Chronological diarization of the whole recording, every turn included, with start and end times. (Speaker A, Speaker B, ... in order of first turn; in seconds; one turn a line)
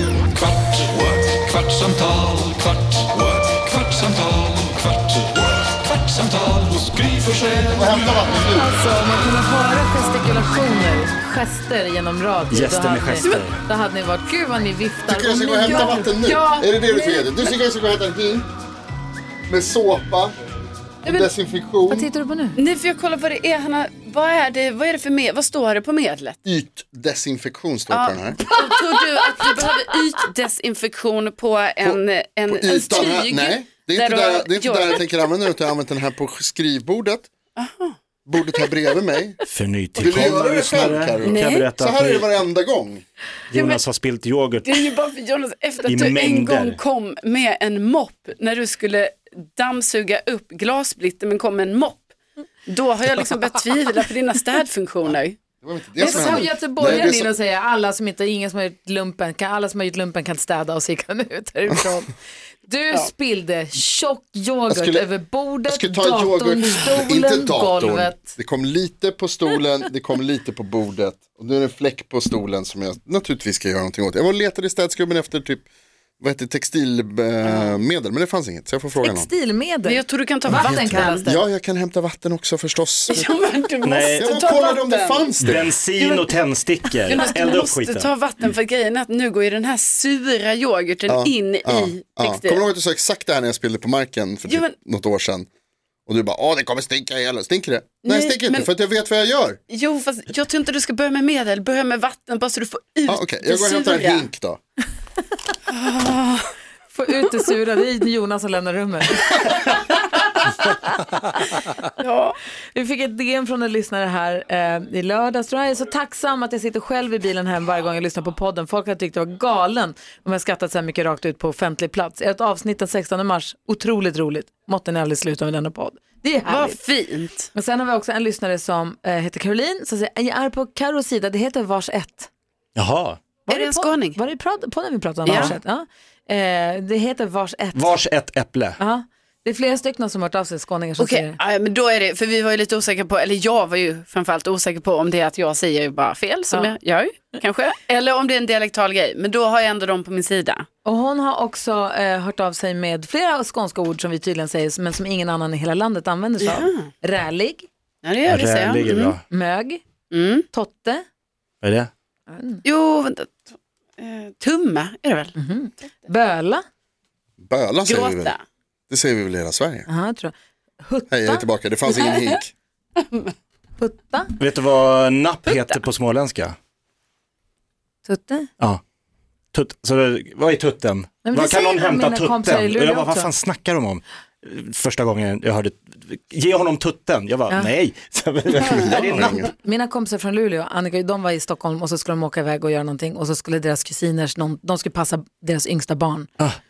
Speaker A: 0.4-7.8
Speaker B: 7.6-8.8
Speaker C: 8.3-16.1
Speaker D: 12.5-13.6
Speaker B: 15.1-18.5
Speaker E: 15.6-17.6
Speaker B: 19.5-20.4
Speaker E: 21.1-21.3
Speaker B: 21.1-22.1
Speaker C: 21.9-22.6
Speaker E: 22.6-26.4
Speaker B: 26.4-28.6
Speaker E: 27.9-35.3
Speaker B: 31.8-37.3
Speaker E: 37.6-38.0
Speaker B: 38.3-39.4
Speaker D: 39.5-42.3
Speaker B: 40.0-43.0
Speaker E: 41.2-41.7
Speaker D: 43.5-44.9
Speaker E: 43.5-43.8
Speaker E: 44.6-52.1
Speaker D: 45.9-46.8
Speaker E: 52.7-55.4
Speaker B: 55.6-57.3
Speaker E: 56.0-56.5
Speaker C: 56.0-62.1
Speaker C: 62.6-68.3
Speaker B: 64.7-65.1
Speaker B: 65.7-75.7
Speaker B: 76.2-79.3
Speaker E: 77.4-77.8
Speaker C: 79.0-81.5
Speaker E: 79.9-81.3
Speaker B: 80.6-83.3
Speaker E: 83.1-86.3
Speaker D: 83.8-84.2
Speaker B: 84.1-85.7
Speaker D: 85.4-88.1
Speaker E: 87.0-92.6
Speaker B: 91.1-95.5
Speaker E: 94.5-94.7
Speaker B: 96.1-99.6
Speaker E: 98.0-98.7
Speaker E: 99.7-104.3
Speaker B: 103.1-104.6
Speaker E: 105.7-106.5
Speaker C: 106.9-111.7
Speaker E: 112.0-112.4
Speaker C: 112.7-126.8
Speaker E: 126.5-127.5
Speaker C: 127.5-132.3
Speaker D: 132.8-133.2
Speaker C: 133.5-137.9
Speaker E: 133.5-134.2
Speaker E: 135.3-135.6
Speaker D: 137.8-138.8
Speaker C: 138.8-141.4
Speaker E: 141.0-150.7
Speaker C: 150.8-157.7
Speaker E: 156.4-156.9
Speaker E: 158.0-159.2
Speaker D: 158.2-159.2
Speaker C: 159.3-159.8
Speaker E: 160.1-160.5
Speaker C: 160.5-161.0
Speaker D: 161.6-161.9
Speaker C: 162.3-162.6
Speaker E: 162.6-163.5
Speaker E: 164.0-165.3
Speaker C: 165.3-166.6
Speaker B: 167.4-168.3
Speaker E: 167.8-168.4
Speaker B: 168.9-169.9
Speaker C: 169.9-171.5
Speaker B: 171.1-172.5
Speaker E: 173.0-173.3
Speaker C: 173.8-174.4
Speaker D: 174.4-176.6
Speaker E: 175.4-175.8
Speaker C: 178.1-178.5
Speaker D: 179.5-189.4
Speaker C: 181.2-183.3
Speaker B: 188.6-189.5
Speaker C: 189.2-196.3